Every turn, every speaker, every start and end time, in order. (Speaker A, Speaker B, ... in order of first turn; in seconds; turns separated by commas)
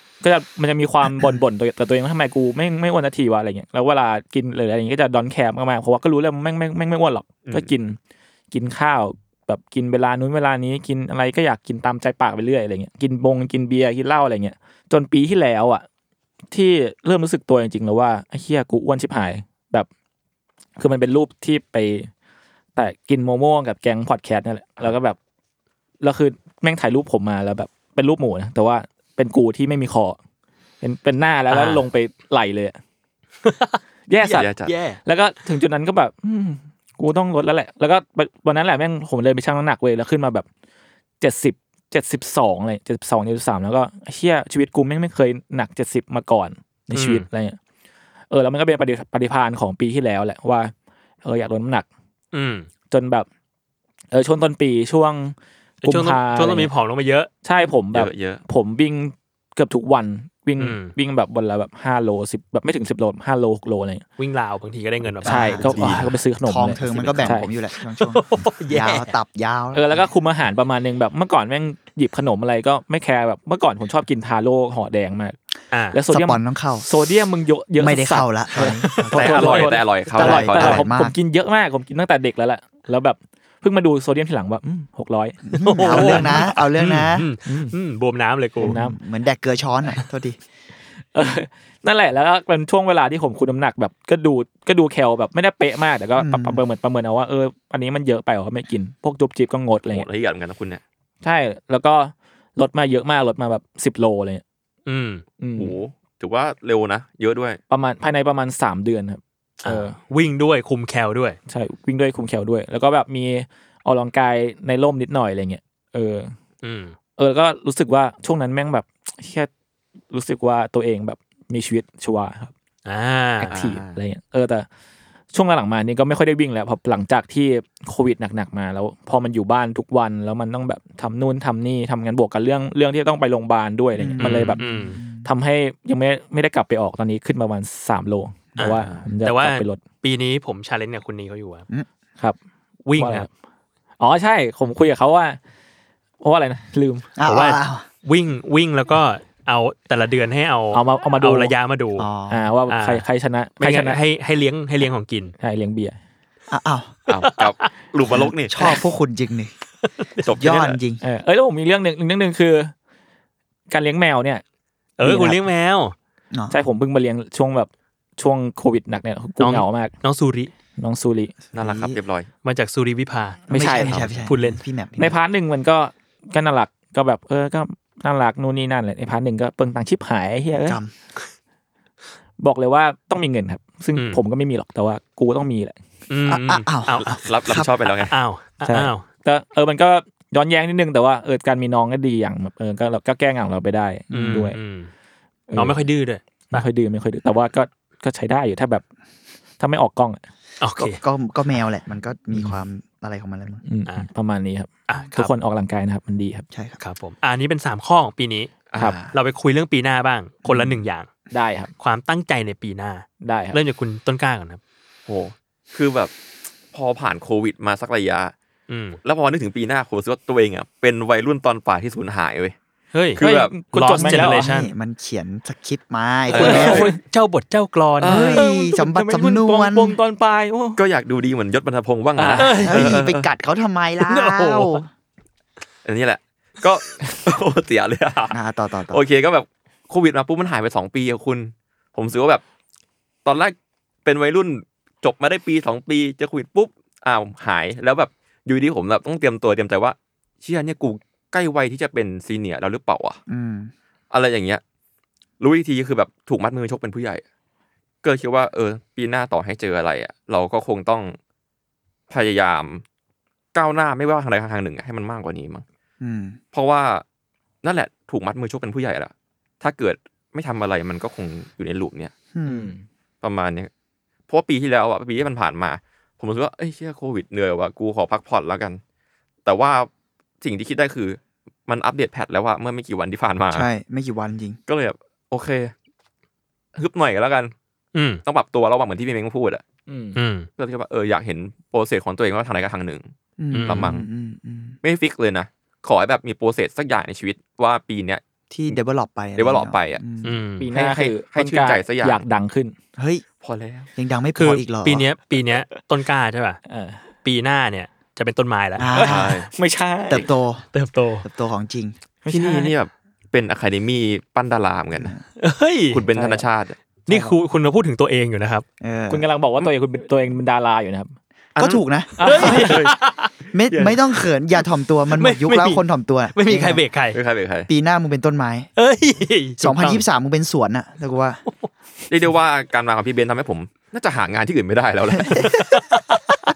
Speaker A: 0.2-8.0, Speaker A: 8.5-15.9, Speaker A: 16.5-19.9, Speaker A: 20.8-22.1, Speaker A: 22.8-25.2, Speaker A: 26.0-30.2, Speaker A: 30.8-32.8, Speaker B: 31.5-31.8, Speaker B: 33.5-35.0, Speaker A: 34.1-34.5, Speaker C: 34.3-34.7, Speaker A: 35.0-40.5, Speaker A: 41.2-47.6, Speaker B: 46.9-47.3, Speaker A: 48.3-50.7, Speaker A: 51.2-51.9, Speaker B: 52.3-52.7, Speaker A: 52.9-53.3, Speaker A: 54.1-56.7, Speaker B: 55.8-57.3, Speaker A: 57.4-64.0, Speaker C: 57.9-58.4, Speaker B: 60.6-60.9, Speaker B: 64.2-65.5, Speaker D: 65.2-70.1, Speaker A: 65.2-67.5, Speaker C: 65.6-66.2, Speaker B: 67.9-69.2, Speaker A: 69.7-75.4, Speaker B: 75.7-76.0, Speaker A: 75.9-86.5, Speaker D: 76.1-76.9, Speaker D: 77.8-81.2, Speaker B: 79.0-79.8, Speaker C: 79.1-80.8, Speaker D: 85.5-87.3, Speaker B: 85.6-88.8, Speaker A: 87.5-87.8, Speaker D: 88.6-90.4, Speaker A: 88.7-89.0, Speaker A: 91.1-100.1, Speaker D: 96.2-96.6, Speaker C: 99.9-100.8, Speaker A: 101.2-104.4, Speaker B: 104.9-105.2, Speaker A: 105.4-105.8, Speaker C: 105.6-107.6, Speaker A: 107.7-110.0, Speaker B: 109.6-111.4, Speaker A: 111.5-116.3, Speaker B: 116.6-117.0, Speaker A: 117.2-119.5, Speaker A: 120.1-122.5, Speaker B: 122.8-123.6, Speaker A: 123.4-124.7, Speaker C: 123.5-123.9, Speaker A: 125.3-139.8, Speaker D: 134.0-135.3, Speaker B: 134.2-135.0, Speaker B: 138.6-141.7, Speaker B: 142.9-143.3, Speaker A: 143.0-143.3, Speaker A: 144.0-145.4, Speaker A: 146.2-147.1, Speaker D: 147.2-147.8, Speaker B: 147.2-152.1, Speaker A: 150.7-151.5, Speaker D: 152.0-152.4, Speaker A: 152.3-154.0, Speaker B: 152.7-153.0, Speaker B: 153.6-155.3, Speaker A: 155.4-156.0, Speaker D: 156.5-156.9, Speaker C: 157.1-158.8, Speaker B: 157.1-157.7, Speaker D: 158.1-159.5, Speaker B: 160.0-160.5, Speaker C: 160.2-160.8, Speaker D: 160.4-161.0, Speaker A: 161.0-162.7, Speaker A: 163.7-164.4, Speaker B: 165.0-165.9, Speaker A: 165.0-165.4, Speaker A: 166.5-169.9, Speaker B: 169.4-170.5, Speaker A: 170.8-171.3, Speaker D: 171.5-172.0, Speaker C: 171.5-172.3, Speaker B: 172.4-173.4, Speaker D: 173.5-175.2, Speaker A: 173.5-174.1, Speaker B: 174.2-174.6, Speaker A: 175.0-180.8, Speaker D: 180.7-180.9, Speaker A: 182.4-185.8, Speaker B: 183.9-184.2, Speaker B: 186.1-187.2, Speaker D: 186.3-187.7, Speaker C: 186.9-188.1, Speaker B: 187.9-189.0, Speaker A: 188.7-194.6, Speaker B: 194.1-194.9, Speaker A: 195.5-195.8, Speaker B: 195.6-196.6, Speaker A: 196.5-198.8, Speaker A: 199.6-200.2, Speaker B: 200.6-201.0, Speaker D: 200.8-203.6, Speaker A: 203.7-206.4, Speaker B: 204.9-205.3, Speaker D: 206.5-206.8, Speaker B: 206.8-211.1, Speaker C: 208.7-209.1, Speaker D: 210.4-210.8, Speaker A: 211.3-211.7, Speaker B: 211.8-214.6, Speaker A: 213.2-213.6, Speaker C: 215.1-216.1, Speaker C: 216.7-218.3, Speaker B: 218.7-219.0, Speaker C: 219.0-222.6, Speaker B: 222.9-223.2, Speaker C: 223.2-223.6, Speaker A: 223.2-224.5, Speaker B: 223.7-224.7, Speaker D: 223.8-226.9, Speaker C: 226.3-226.9, Speaker A: 226.3-227.0, Speaker B: 226.4-228.3, Speaker D: 228.0-230.0, Speaker C: 228.0-228.4, Speaker A: 228.3-230.8, Speaker C: 230.8-233.3, Speaker A: 232.2-232.8, Speaker B: 232.4-233.0, Speaker D: 232.7-234.9, Speaker B: 234.0-234.9, Speaker C: 235.8-238.4, Speaker D: 238.3-239.0, Speaker C: 238.9-242.4, Speaker C: 243.2-253.2, Speaker D: 253.3-253.7, Speaker C: 254.1-254.6, Speaker C: 255.4-257.2, Speaker C: 258.0-261.2, Speaker C: 262.1-262.8, Speaker C: 263.5-265.6, Speaker D: 266.0-266.4, Speaker C: 266.5-267.0, Speaker C: 267.6-272.1, Speaker D: 272.3-272.7, Speaker A: 272.5-272.9, Speaker C: 273.2-273.7, Speaker C: 274.3-278.8, Speaker C: 279.4-279.9, Speaker C: 280.4-283.7, Speaker D: 283.5-284.6, Speaker C: 284.7-285.7, Speaker C: 286.8-287.5, Speaker B: 287.9-288.2, Speaker C: 288.3-289.6, Speaker A: 289.9-290.2, Speaker B: 290.2-290.5, Speaker C: 290.6-294.1, Speaker D: 293.4-294.8, Speaker B: 293.5-293.9, Speaker C: 294.8-298.8, Speaker D: 298.5-300.4, Speaker C: 299.4-300.0, Speaker B: 300.2-300.7, Speaker A: 300.6-302.8, Speaker C: 300.7-302.2, Speaker D: 303.0-303.2, Speaker C: 303.4-303.9, Speaker D: 303.9-305.1, Speaker B: 304.4-306.6, Speaker A: 306.7-307.0, Speaker B: 307.2-309.0, Speaker D: 308.8-309.5, Speaker A: 309.0-310.3, Speaker C: 309.0-309.5, Speaker D: 310.1-310.7, Speaker B: 310.7-311.3, Speaker D: 311.2-312.0, Speaker A: 312.2-312.7, Speaker C: 312.3-315.2, Speaker B: 315.4-316.0, Speaker C: 315.9-316.8, Speaker A: 316.1-316.4, Speaker B: 317.1-318.6, Speaker A: 317.1-317.4, Speaker D: 318.8-319.3, Speaker A: 319.1-321.1, Speaker D: 321.6-322.7, Speaker A: 322.2-322.8, Speaker B: 322.2-324.0, Speaker C: 322.5-323.0, Speaker D: 323.5-326.8, Speaker B: 325.1-327.2, Speaker C: 327.1-327.7, Speaker D: 327.7-328.7, Speaker B: 328.8-330.1, Speaker D: 329.6-331.4, Speaker C: 332.1-335.6, Speaker D: 335.2-335.8, Speaker B: 335.4-336.3